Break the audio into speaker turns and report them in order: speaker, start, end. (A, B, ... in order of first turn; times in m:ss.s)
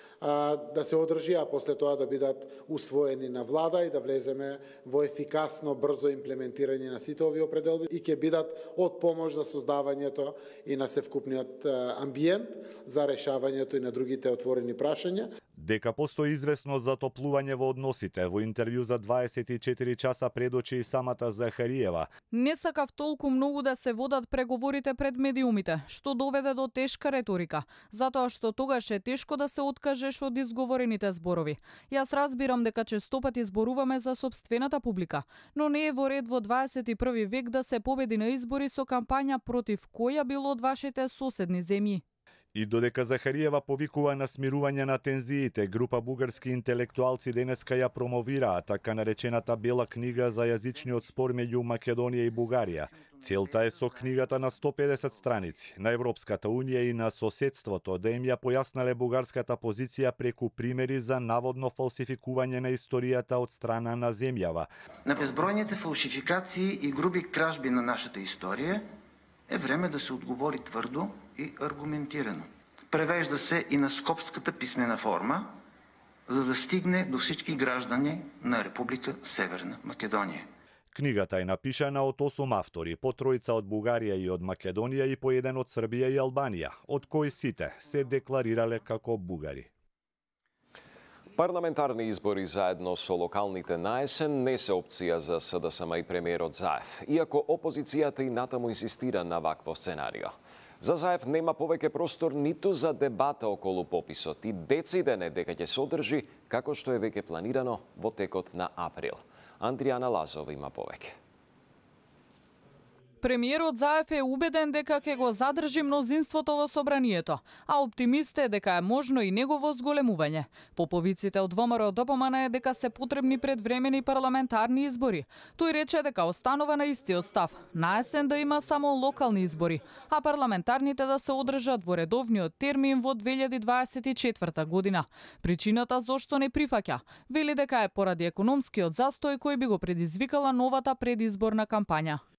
0:00.2-0:15.3 A
0:15.6-0:22.1 B
0:22.3-0:42.0 C
0:42.5-1:04.7 B
1:05.0-1:08.8 D
1:09.5-1:15.5 D
1:16.3-1:20.4 D
1:20.9-1:29.7 B
1:31.4-1:51.2 E
1:53.2-2:22.2 C